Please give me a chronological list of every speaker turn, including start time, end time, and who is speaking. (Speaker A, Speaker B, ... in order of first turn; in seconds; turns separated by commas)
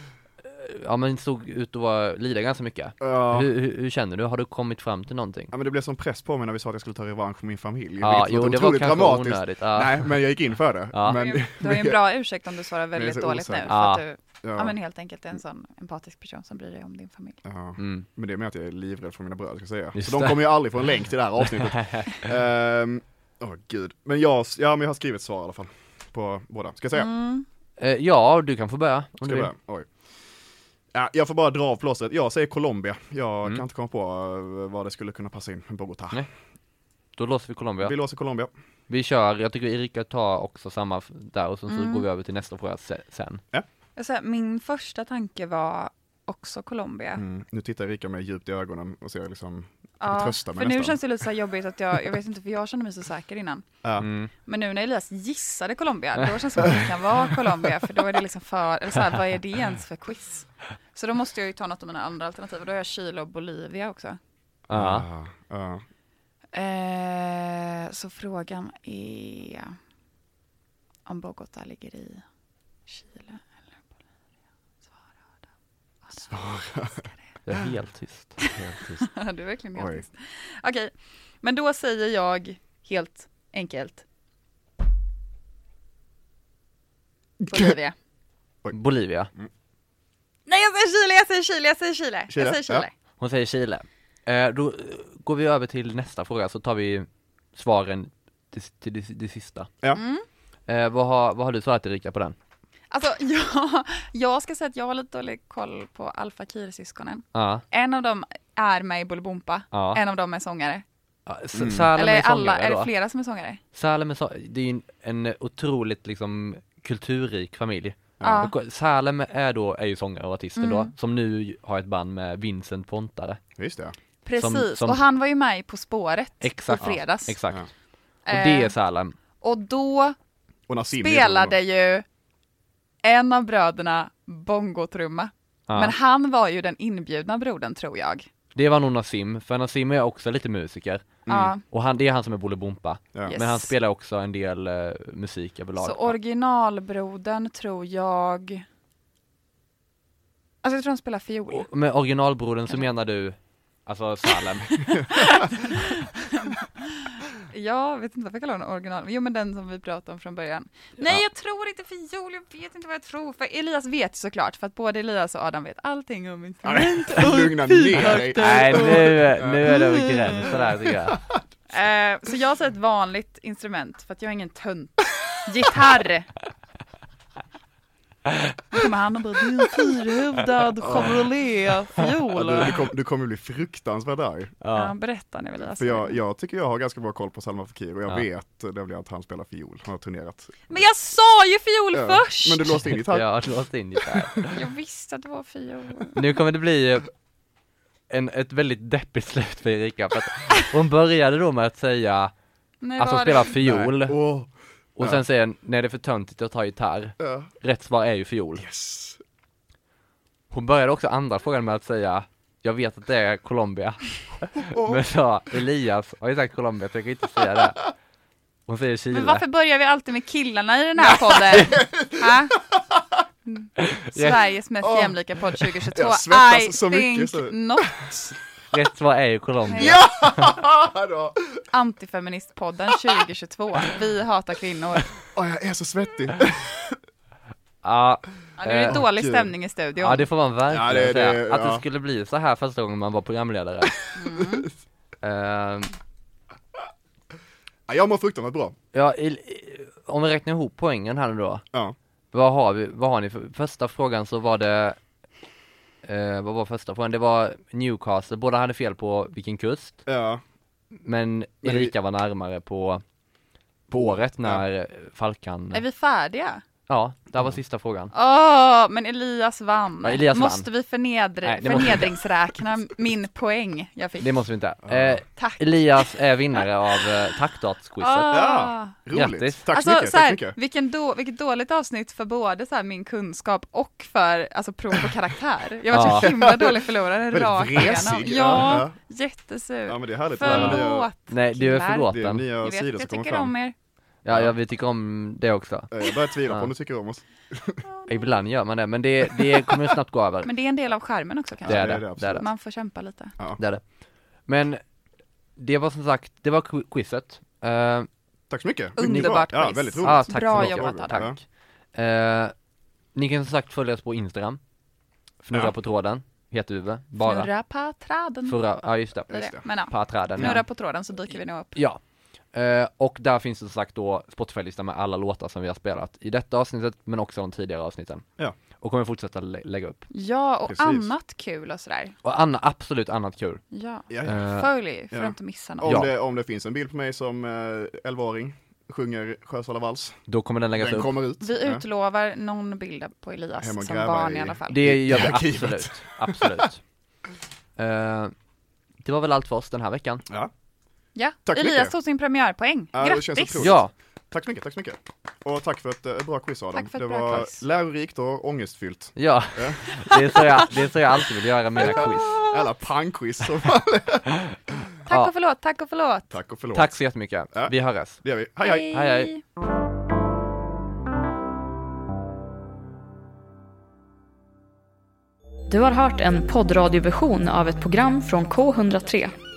Speaker A: 0.4-5.5, Speaker B: 3.0-3.5, Speaker B: 5.5-12.0, Speaker A: 8.0-10.2, Speaker A: 10.9-11.2, Speaker C: 11.1-17.4, Speaker B: 12.9-13.7, Speaker A: 13.7-14.0, Speaker B: 14.4-14.8, Speaker B: 17.4-27.1, Speaker A: 17.8-18.1, Speaker A: 19.9-20.6, Speaker A: 21.4-22.2, Speaker C: 26.9-27.4, Speaker A: 27.8-29.5, Speaker B: 29.2-29.9, Speaker B: 30.9-36.3, Speaker A: 37.2-38.0, Speaker B: 37.8-38.5, Speaker A: 38.9-43.4, Speaker C: 41.7-42.0, Speaker C: 44.0-47.2, Speaker B: 47.2-51.0, Speaker C: 50.0-53.7, Speaker B: 53.8-54.1, Speaker A: 54.0-54.3, Speaker C: 54.4-64.2, Speaker A: 64.7-65.1, Speaker B: 64.7-65.8, Speaker C: 66.5-69.8, Speaker C: 71.1-72.2, Speaker C: 72.9-73.7, Speaker C: 76.0-77.2, Speaker B: 76.2-77.1, Speaker A: 77.5-78.4, Speaker C: 78.4-84.0, Speaker B: 78.5-79.1, Speaker B: 79.8-80.0, Speaker B: 87.4-87.8, Speaker C: 87.5-88.0, Speaker A: 88.7-89.3, Speaker C: 90.5-92.9, Speaker B: 92.3-92.9, Speaker A: 93.2-99.7, Speaker C: 99.9-100.3, Speaker A: 100.7-102.4, Speaker C: 102.9-110.8, Speaker A: 107.3-107.6, Speaker A: 109.7-110.0, Speaker A: 111.3-112.9, Speaker B: 111.5-111.9, Speaker C: 112.0-113.6, Speaker A: 113.8-123.4, Speaker B: 118.2-118.5, Speaker C: 118.2-118.5, Speaker C: 120.6-120.9, Speaker B: 123.6-124.0, Speaker C: 124.2-127.4, Speaker A: 124.4-125.0, Speaker A: 126.4-127.7, Speaker C: 128.3-128.7, Speaker A: 128.3-129.2, Speaker C: 129.4-130.2, Speaker B: 130.7-131.6, Speaker C: 131.0-132.1, Speaker C: 133.0-138.3, Speaker A: 135.7-135.9, Speaker A: 138.6-146.1, Speaker B: 141.3-141.5, Speaker C: 141.3-141.6, Speaker C: 143.3-143.7, Speaker C: 145.8-148.6, Speaker C: 150.6-151.7, Speaker A: 151.5-155.1, Speaker C: 154.7-170.7, Speaker B: 166.6-169.8, Speaker A: 168.4-171.2, Speaker B: 171.1-171.4, Speaker C: 171.7-176.3, Speaker C: 178.7-182.8, Speaker B: 180.8-181.2, Speaker B: 182.3-184.6, Speaker A: 184.6-184.9, Speaker C: 184.7-186.2, Speaker B: 185.8-190.6, Speaker C: 190.7-192.8, Speaker B: 191.9-193.3, Speaker A: 192.9-194.6, Speaker C: 194.5-196.3, Speaker A: 196.1-197.1, Speaker A: 198.1-202.3, Speaker C: 202.8-203.6, Speaker A: 203.0-204.2, Speaker B: 203.6-205.2, Speaker A: 205.0-208.7, Speaker B: 207.2-207.5, Speaker B: 208.6-209.2, Speaker A: 210.5-217.8, Speaker B: 214.6-215.0, Speaker A: 218.7-219.4, Speaker C: 219.1-222.6, Speaker B: 221.1-223.2, Speaker C: 223.5-228.4, Speaker A: 223.8-224.4, Speaker B: 224.8-225.2, Speaker B: 225.9-228.1, Speaker A: 228.7-230.5, Speaker C: 229.7-230.0, Speaker B: 229.8-231.6, Speaker C: 231.7-235.2, Speaker B: 235.3-237.0, Speaker A: 237.8-239.1, Speaker C: 238.6-240.3, Speaker B: 238.9-239.5, Speaker A: 240.0-244.0, Speaker B: 240.7-241.8, Speaker C: 244.1-244.7, Speaker A: 245.2-246.0, Speaker B: 247.9-248.8, Speaker A: 248.9-251.7, Speaker A: 252.3-255.0, Speaker A: 256.1-260.0, Speaker B: 260.1-260.4, Speaker A: 260.9-263.0, Speaker B: 261.6-261.9, Speaker A: 263.9-265.8, Speaker B: 264.0-264.6, Speaker C: 265.7-266.6, Speaker A: 266.9-268.1, Speaker C: 268.1-274.4, Speaker A: 270.0-270.7, Speaker A: 271.4-272.1, Speaker A: 274.2-278.4, Speaker B: 274.9-275.2, Speaker C: 275.4-275.8, Speaker C: 278.0-279.0, Speaker B: 278.3-280.6, Speaker A: 279.1-279.6, Speaker C: 279.7-293.8, Speaker A: 285.9-286.3, Speaker B: 286.0-288.9, Speaker B: 289.9-291.1, Speaker A: 290.5-292.5, Speaker B: 292.1-293.5, Speaker A: 294.2-295.9, Speaker B: 295.9-297.8, Speaker A: 298.1-300.5, Speaker C: 300.4-303.4, Speaker B: 301.6-302.5, Speaker A: 301.7-302.5, Speaker A: 303.6-303.8, Speaker A: 304.5-304.8, Speaker A: 305.6-308.1, Speaker B: 308.5-311.4, Speaker C: 309.0-311.3, Speaker A: 309.0-309.5, Speaker A: 310.0-311.4, Speaker A: 311.9-312.5, Speaker A: 313.1-314.6, Speaker A: 315.4-317.5, Speaker C: 317.2-318.7, Speaker A: 318.5-320.6, Speaker B: 319.3-319.6, Speaker C: 319.3-321.8, Speaker A: 321.8-322.0, Speaker A: 322.5-328.3, Speaker A: 328.8-330.1, Speaker C: 330.1-332.2, Speaker B: 330.7-331.1, Speaker A: 332.2-333.6, Speaker C: 333.7-336.1, Speaker B: 334.1-334.4, Speaker A: 334.2-334.7, Speaker B: 335.1-340.2, Speaker A: 340.3-341.1, Speaker B: 340.8-341.8, Speaker C: 341.4-344.8, Speaker B: 343.6-346.7, Speaker A: 344.7-346.8, Speaker A: 347.8-348.3, Speaker A: 349.0-350.2, Speaker B: 350.3-350.5, Speaker C: 351.1-353.8, Speaker B: 351.4-351.9, Speaker B: 352.9-359.9, Speaker A: 353.6-353.9, Speaker C: 356.7-357.6, Speaker A: 359.2-362.4, Speaker C: 360.1-360.4, Speaker B: 361.8-364.3, Speaker C: 365.1-366.4, Speaker A: 365.1-365.3, Speaker B: 366.3-366.9, Speaker A: 366.7-368.2, Speaker B: 367.5-369.1, Speaker C: 368.6-369.4, Speaker A: 368.9-369.3, Speaker D: 375.7-379.4